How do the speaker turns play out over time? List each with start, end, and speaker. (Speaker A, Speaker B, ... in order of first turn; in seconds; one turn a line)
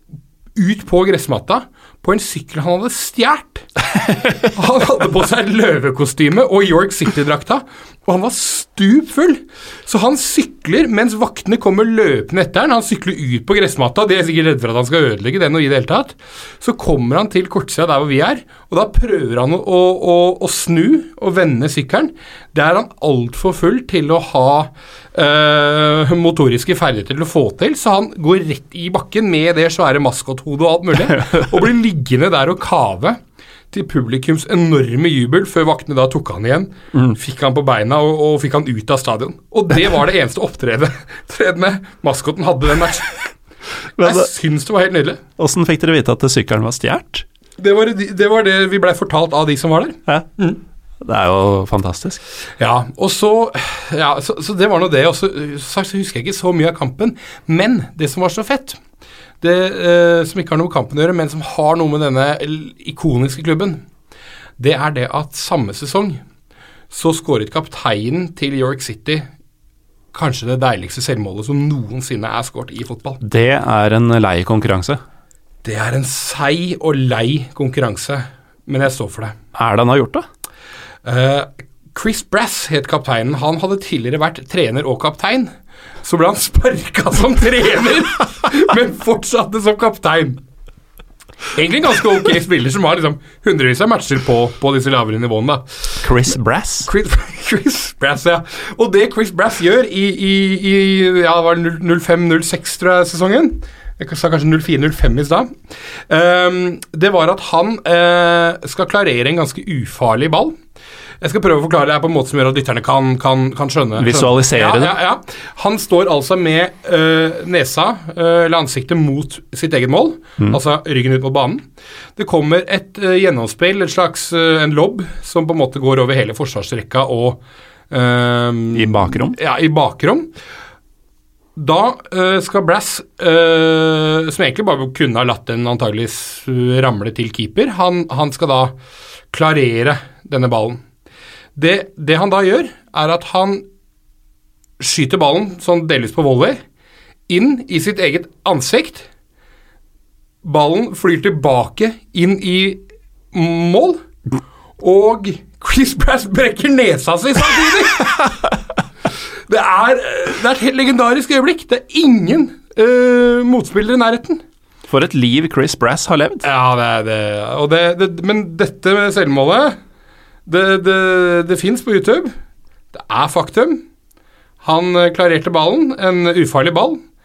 Speaker A: 0.5-3.7
Speaker A: 4.4-33.2
Speaker A: 33.7-43.3
Speaker A: 44.0-45.2
Speaker B: 44.0-44.3
Speaker B: 45.4-47.2
Speaker A: 47.6-50.6
Speaker B: 51.0-52.2
Speaker A: 52.6-58.8
Speaker A: 59.4-63.8
Speaker A: 64.6-66.2
Speaker A: 66.9-69.3
Speaker A: 70.1-73.2
Speaker B: 73.2-75.0
Speaker A: 75.6-79.3
Speaker B: 79.5-80.2
Speaker A: 81.0-85.5
Speaker A: 86.0-90.4
Speaker A: 91.5-95.6
Speaker B: 96.0-96.9
Speaker A: 96.8-105.5
Speaker A: 106.1-110.5
Speaker A: 111.2-121.6
Speaker B: 114.0-114.9
Speaker A: 122.2-130.3
Speaker B: 128.7-129.3
Speaker A: 131.6-138.7
Speaker A: 139.3-140.8
Speaker A: 141.6-143.6
Speaker A: 144.8-146.6
Speaker A: 147.3-149.1
Speaker A: 150.4-154.0
Speaker A: 154.8-158.3
Speaker A: 159.5-164.4
Speaker B: 164.9-166.4
Speaker A: 166.4-169.8
Speaker A: 170.4-172.3
Speaker A: 172.9-173.8
Speaker A: 174.6-177.0